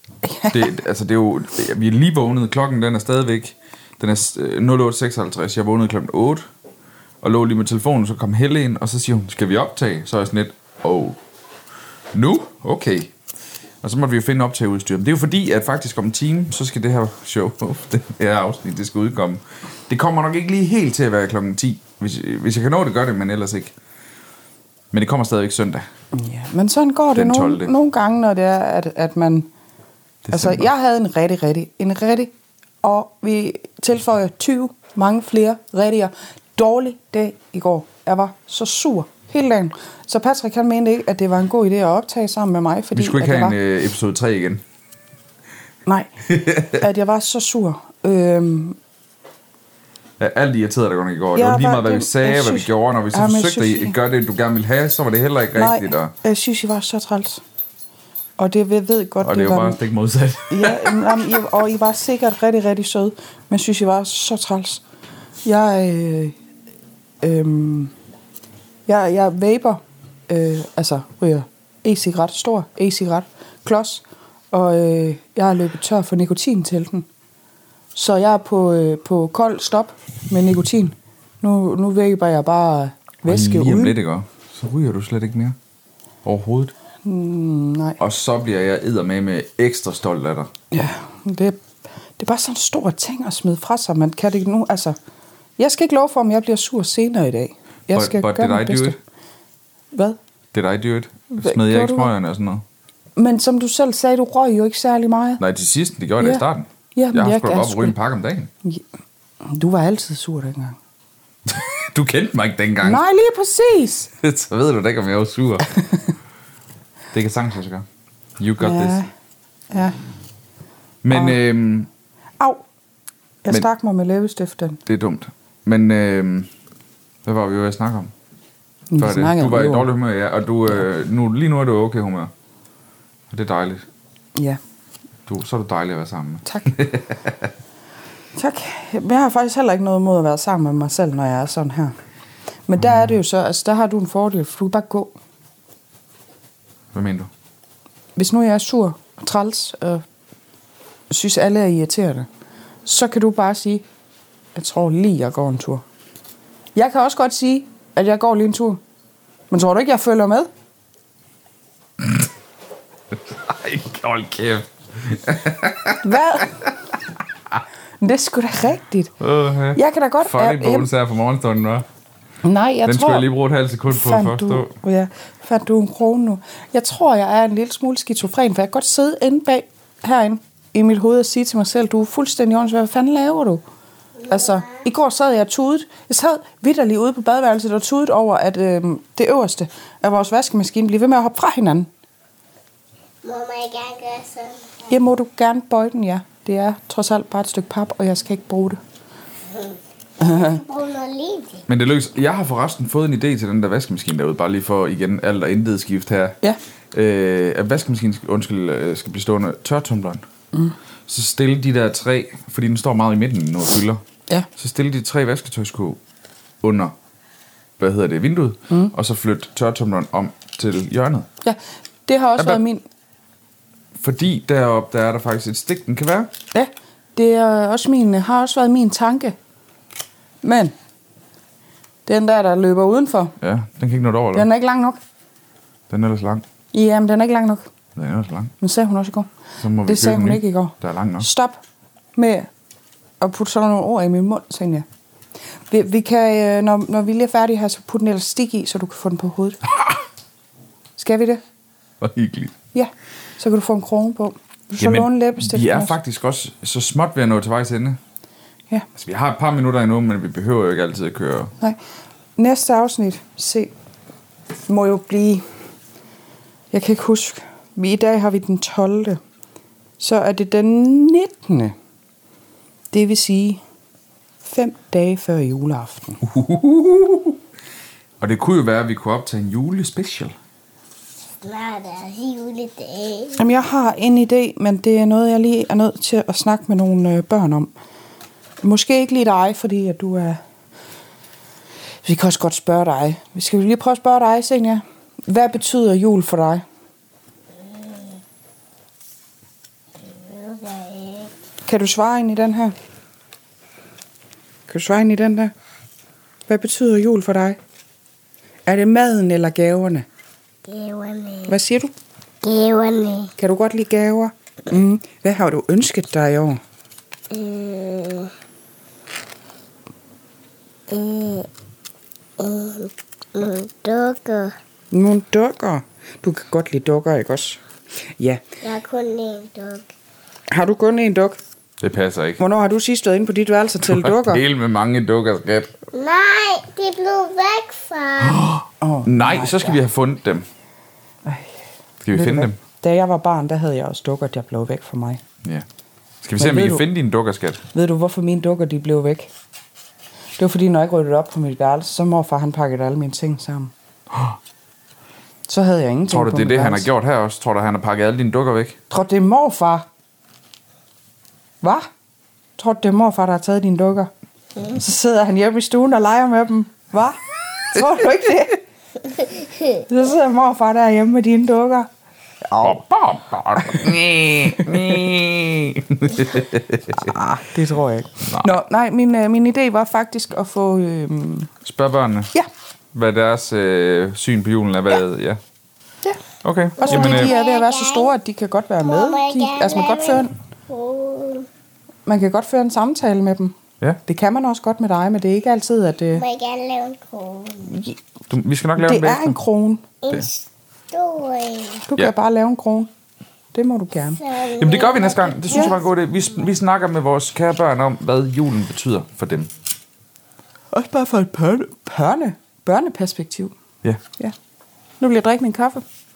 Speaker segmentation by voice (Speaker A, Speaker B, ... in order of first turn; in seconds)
Speaker A: 0.2-0.7, 26.1-29.5, 30.3-32.3, 32.8-43.6, 45.9-48.8, 51.4-54.0, 55.5-57.4, 58.4-59.8, 60.5-64.8, 65.5-66.4, 67.2-67.9, 68.9-77.1, 77.9-84.0, 87.0-88.0, 90.7-91.6, 92.2-95.0, 95.6-99.0, 99.9-100.2, 101.3-102.1, 103.2-105.4, 106.2-106.4, 107.0-108.0, 109.4-110.8, 112.8-114.1, 118.6-119.1, 119.7-120.0, 121.1-121.4, 123.4-124.8, 128.9-129.9, 138.3-141.9, 142.7-145.1, 148.2-150.0, 151.1-152.3, 152.8-153.8, 154.6-155.8, 156.8-158.8, 159.5-160.5, 166.0-166.7, 168.0-169.1, 169.7-170.9, 172.4-173.3, 173.9-183.6, 184.3-191.9, 194.9-198.8, 200.2-200.6, 221.4-222.8, 226.5-229.4, 230.4-230.8, 232.1-233.3, 234.3-235.0, 236.7-237.7, 238.6-241.6, 242.2-242.5, 243.2-244.9, 245.7-249.6, 251.0-251.4, 252.7-256.0, 262.4-263.7, 264.7-265.4, 266.7-269.2, 270.0-271.8, 272.9-273.6, 274.4-276.2, 283.4-287.7, 288.6-290.4, 292.0-296.6, 301.6-302.7, 304.7-305.5, 306.5-307.6, 308.7-310.1, 311.5-311.9, 313.4-316.6, 324.9-327.6, 328.2-328.4, 330.5-331.4, 332.4-334.4, 338.8-339.8, 341.2-341.6, 342.1-345.2, 346.4-346.9, 347.7-349.3, 350.4-353.7, 355.5-356.9, 358.9-359.9, 361.6-361.9, 362.6-364.1, 364.6-368.6, 369.8-371.9, 372.5-372.8, 373.6-374.9, 377.0-381.5, 386.8-390.3, 392.1-393.6, 394.1-396.2, 398.8-399.9, 401.9-402.9, 403.5-404.2, 410.7-413.5, 415.0-415.8
Speaker B: 0.5-6.5, 7.2-11.2, 12.1-13.1, 13.8-23.7, 24.9-25.9, 27.1-27.7, 30.2-30.7, 43.0-44.6, 46.3-46.8, 50.2-56.1, 59.2-61.2, 83.3-85.6, 86.2-86.7, 88.0-90.5, 97.9-99.0, 100.5-102.6, 105.4-108.5, 111.5-113.0, 114.2-115.8, 117.1-117.9, 118.4-119.0, 121.0-121.9, 124.9-126.5, 127.2-128.1, 129.0-132.3, 133.3-133.8, 135.3-137.5, 146.9-147.3, 162.0-162.3, 163.1-166.5, 169.2-171.9, 172.9-174.7, 201.7-206.4, 206.9-210.2, 211.1-214.0, 214.6-216.0, 216.6-216.9, 217.8-221.3, 224.0-226.3, 233.4-234.5, 235.9-236.4, 238.0-238.5, 239.6-241.3, 252.0-252.6, 254.8-258.0, 259.0-261.5, 276.2-277.4, 278.2-280.4, 331.8-332.4, 333.8-335.7, 338.2-340.5, 342.0-342.6, 346.2-347.6, 354.1-354.4, 356.1-358.8, 372.6-377.2, 381.6-382.3, 382.9-385.4, 386.4-387.3, 398.3-399.4, 404.6-409.5
Speaker C: 184.2-184.8, 193.2-194.8, 199.5-201.7, 281.4-283.4, 300.3-301.3, 310.7-311.5, 312.4-313.3, 317.3-318.3, 320.9-321.5, 322.4-324.6, 328.6-329.9, 335.9-338.5, 386.8-388.1, 388.8-391.5, 396.1-397.8, 400.0-401.9, 404.2-405.9